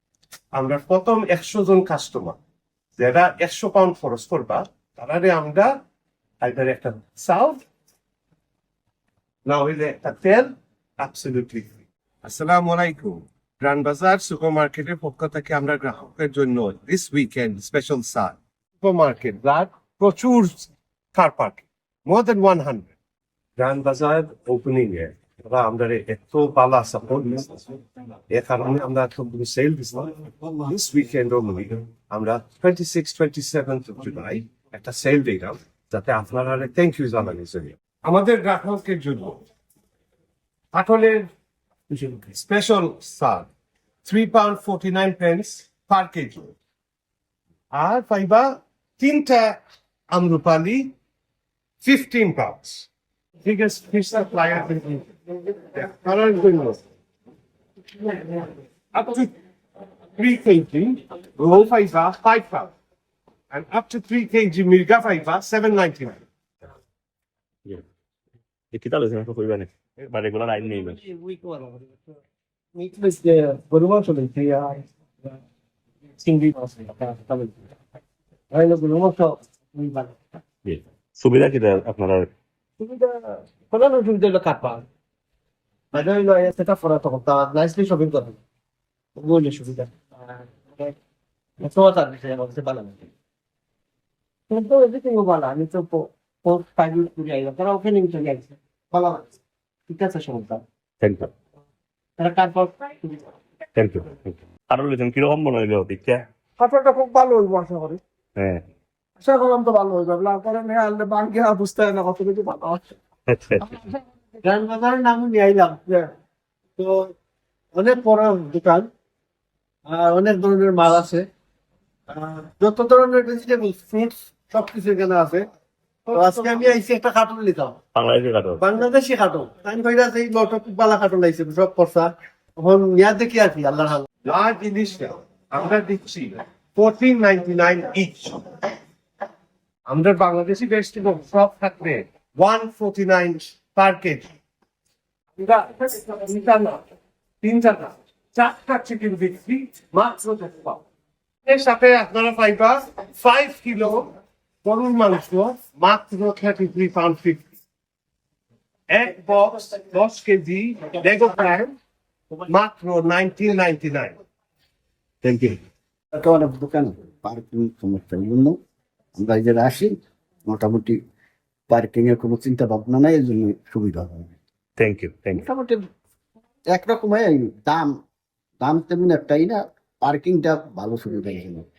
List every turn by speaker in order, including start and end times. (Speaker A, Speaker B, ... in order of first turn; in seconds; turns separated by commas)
Speaker A: 0.5-2.4, Speaker A: 3.0-5.8, Speaker A: 6.4-7.6, Speaker A: 9.4-22.9, Speaker A: 23.6-39.4, Speaker A: 40.7-41.3, Speaker B: 41.9-42.2, Speaker A: 42.3-43.5, Speaker A: 44.0-46.6, Speaker A: 47.7-50.9, Speaker A: 51.8-52.9, Speaker A: 53.4-55.1, Speaker A: 55.6-56.8, Speaker A: 58.9-59.3, Speaker A: 60.2-62.7, Speaker A: 63.5-66.2, Speaker C: 68.7-71.0, Speaker B: 70.4-72.2, Speaker B: 72.8-75.4, Speaker B: 76.2-77.6, Speaker B: 78.5-80.2, Speaker C: 80.6-82.3, Speaker B: 82.8-84.8, Speaker B: 85.9-88.4, Speaker B: 89.2-91.0, Speaker B: 91.6-93.1, Speaker B: 94.5-99.2, Speaker B: 99.9-100.6, Speaker C: 101.0-101.3, Speaker B: 102.2-103.3, Speaker C: 103.8-106.3, Speaker B: 106.6-108.0, Speaker C: 108.4-108.6, Speaker B: 109.2-112.8, Speaker C: 113.3-113.7, Speaker B: 114.4-116.1, Speaker B: 116.8-117.1, Speaker B: 117.7-118.9, Speaker B: 119.9-121.3, Speaker B: 122.1-125.5, Speaker B: 126.1-127.8, Speaker C: 128.0-128.6, Speaker B: 128.6-134.1, Speaker A: 134.2-138.7, Speaker A: 139.9-144.3, Speaker A: 145.4-146.8, Speaker A: 147.4-150.8, Speaker A: 151.4-157.4, Speaker A: 158.9-161.8, Speaker A: 162.4-164.1, Speaker D: 165.2-165.6, Speaker D: 166.1-168.6, Speaker D: 169.2-171.0, Speaker D: 171.7-174.4, Speaker C: 174.8-175.5, Speaker D: 175.3-175.8, Speaker D: 176.7-178.0, Speaker D: 178.6-181.7